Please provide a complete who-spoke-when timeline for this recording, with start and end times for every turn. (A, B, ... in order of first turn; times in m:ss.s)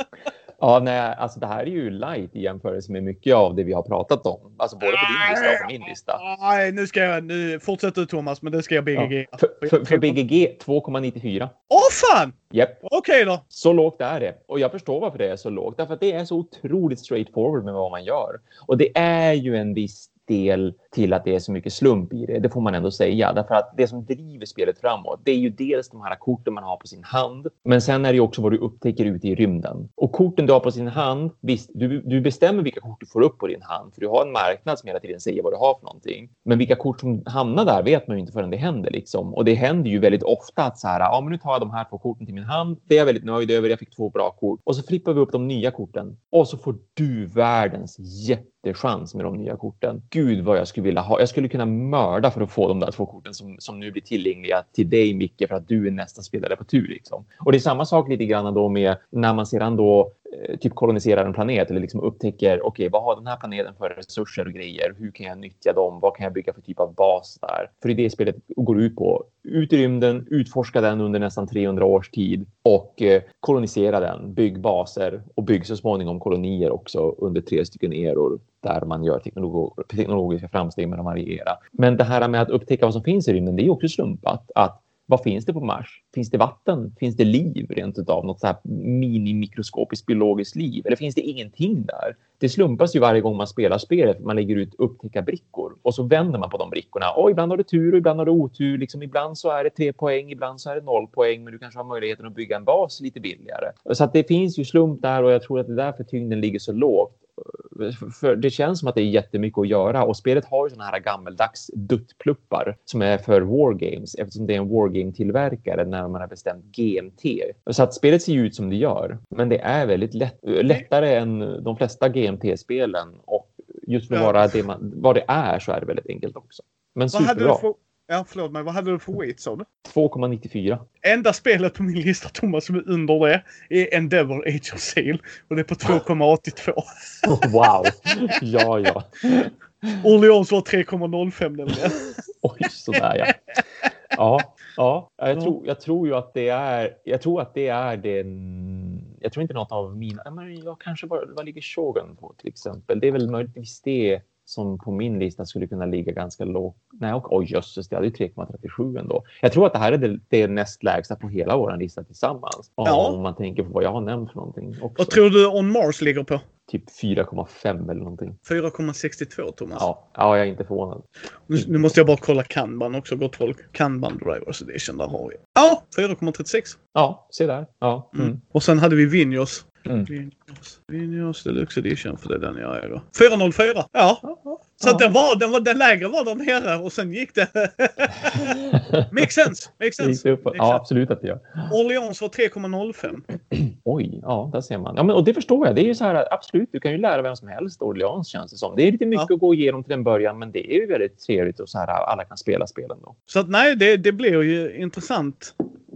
0:00.6-0:06.2 A
0:04.9-0:10.2 B
0:09.0-0:11.5 A
0:11.7-0:12.3 B
0:12.5-0:12.8 A
0:12.8-0:13.4 B
0:13.5-2:07.6 A
2:04.1-2:04.5 B
2:07.1-2:09.6 B
2:09.8-2:10.8 A
2:11.0-2:17.3 B
2:17.2-2:20.0 A
2:20.0-2:22.1 B
2:22.4-2:23.4 A
2:24.1-2:45.2 A
2:42.8-2:43.2 B
2:45.0-2:46.4 B
2:46.7-2:48.4 A
2:48.4-2:49.9 B
2:49.8-2:51.7 A
2:51.5-2:56.8 B
2:56.9-2:58.4 A
2:58.1-3:04.2 B
3:04.2-3:05.1 A
3:04.8-3:10.8 B
3:08.3-3:09.2 A
3:10.0-3:11.7 A
3:11.7-3:13.3 B
3:13.5-3:23.1 A
3:23.3-3:25.5 B